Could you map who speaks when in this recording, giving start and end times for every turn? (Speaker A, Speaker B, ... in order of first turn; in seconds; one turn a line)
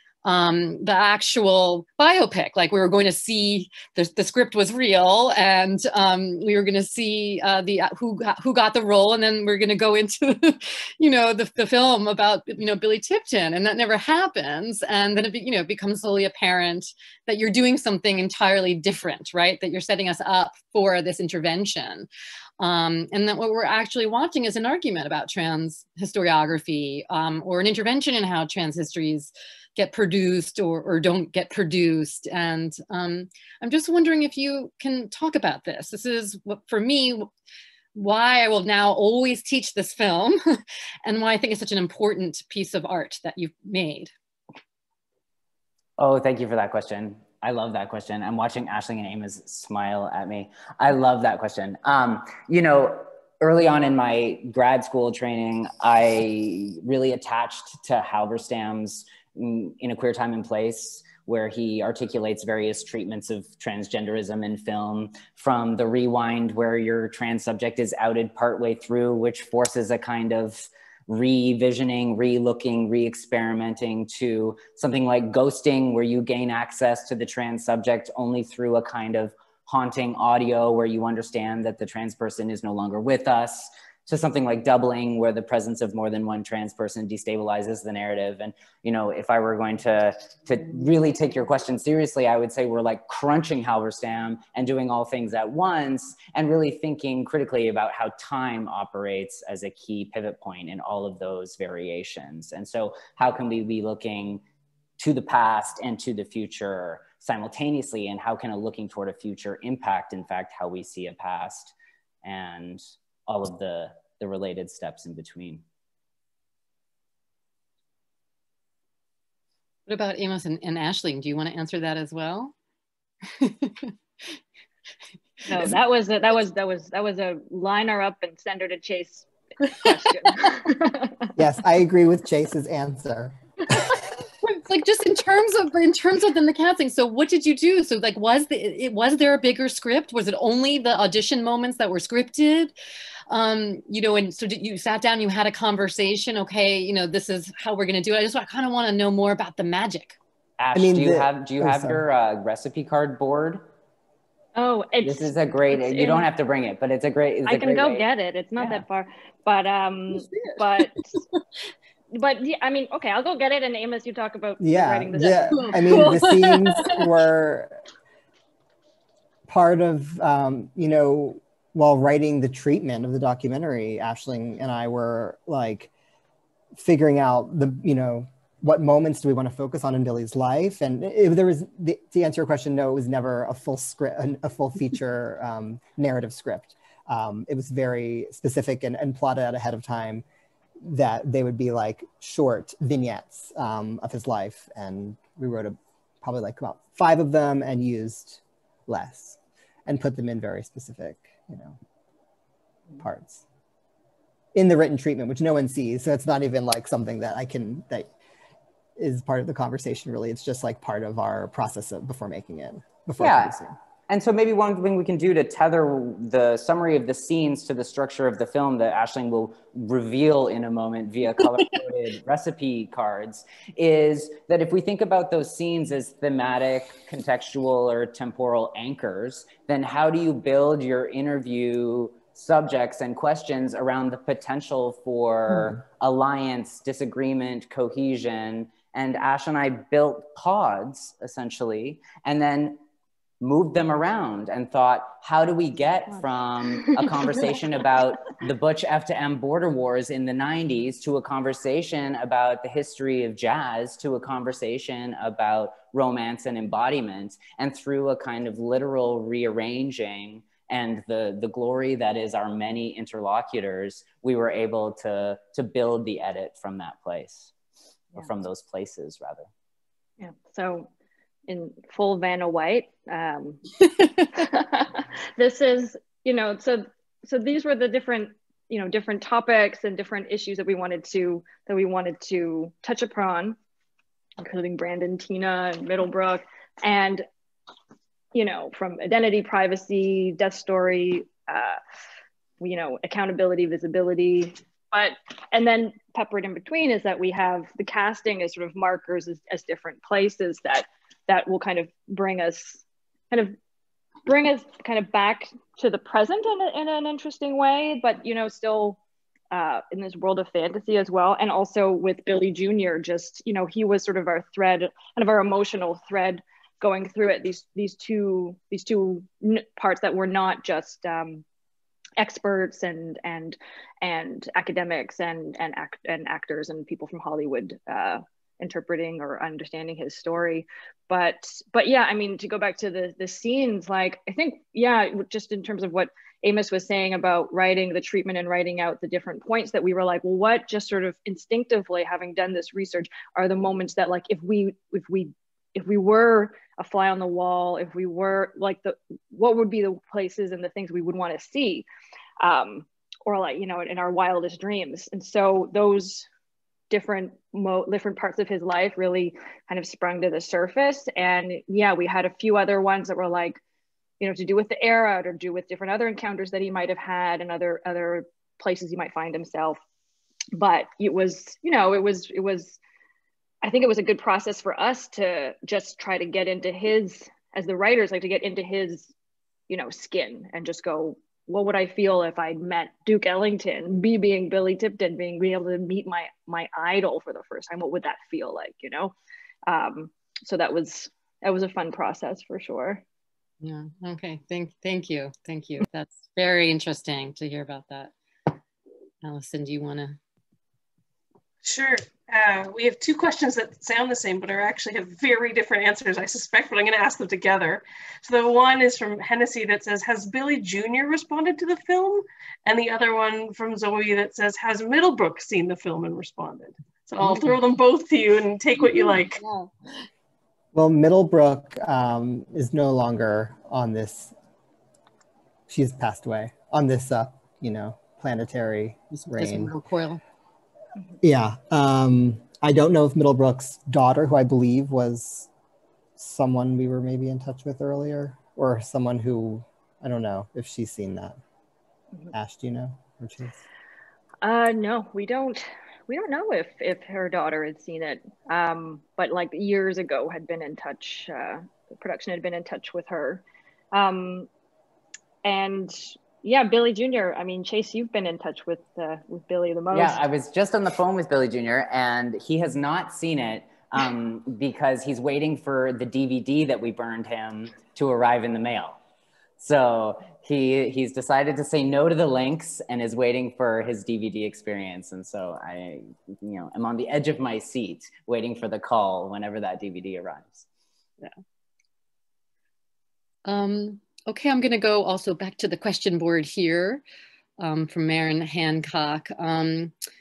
Speaker A: 0.2-22.1
Speaker A: 22.6-37.3
Speaker A: 38.0-40.4
Speaker A: 41.0-44.1
Speaker B: 46.0-104.4
Speaker B: 105.0-115.6
Speaker A: 119.9-122.5
Speaker A: 123.4-123.9
Speaker C: 125.5-131.3
Speaker D: 131.4-133.4
Speaker A: 133.8-142.7
Speaker A: 143.3-150.2
Speaker B: 150.6-153.6
Speaker D: 150.7-152.0
Speaker C: 154.6-156.3
Speaker B: 155.0-158.1
Speaker C: 157.5-161.1
Speaker B: 158.6-158.8
Speaker A: 160.3-160.6
Speaker A: 161.1-161.4
Speaker C: 162.1-166.2
Speaker D: 164.6-167.8
Speaker A: 165.5-167.0
Speaker D: 169.5-175.9
Speaker D: 176.8-190.2
Speaker D: 190.8-201.8
Speaker D: 203.0-203.4
Speaker D: 204.5-208.1
Speaker D: 209.0-213.8
Speaker B: 213.2-242.8
Speaker B: 243.4-267.5
Speaker C: 246.8-247.4
Speaker B: 268.1-269.5
Speaker C: 270.2-270.9
Speaker C: 271.5-283.6
Speaker C: 284.4-287.2
Speaker C: 288.3-291.8
Speaker C: 292.6-303.6
Speaker C: 304.2-309.0
Speaker C: 309.5-321.4
Speaker C: 322.2-351.9
Speaker C: 352.4-356.3
Speaker C: 356.9-363.6
Speaker C: 364.2-369.8
Speaker C: 370.6-372.8
Speaker C: 373.6-379.1
Speaker C: 379.7-389.1
Speaker C: 389.7-393.0
Speaker A: 393.6-398.1
Speaker A: 399.2-400.2
Speaker E: 401.6-419.4
Speaker A: 417.2-417.5
Speaker A: 418.9-419.7
Speaker D: 420.7-424.3
Speaker D: 425.7-429.8
Speaker A: 429.1-430.2
Speaker D: 431.2-435.5
Speaker D: 436.2-441.4
Speaker D: 442.3-443.6
Speaker C: 444.4-453.4
Speaker C: 453.9-454.5
Speaker C: 455.4-460.2
Speaker B: 459.9-469.0
Speaker B: 469.6-480.7
Speaker A: 483.4-487.0
Speaker A: 487.6-489.9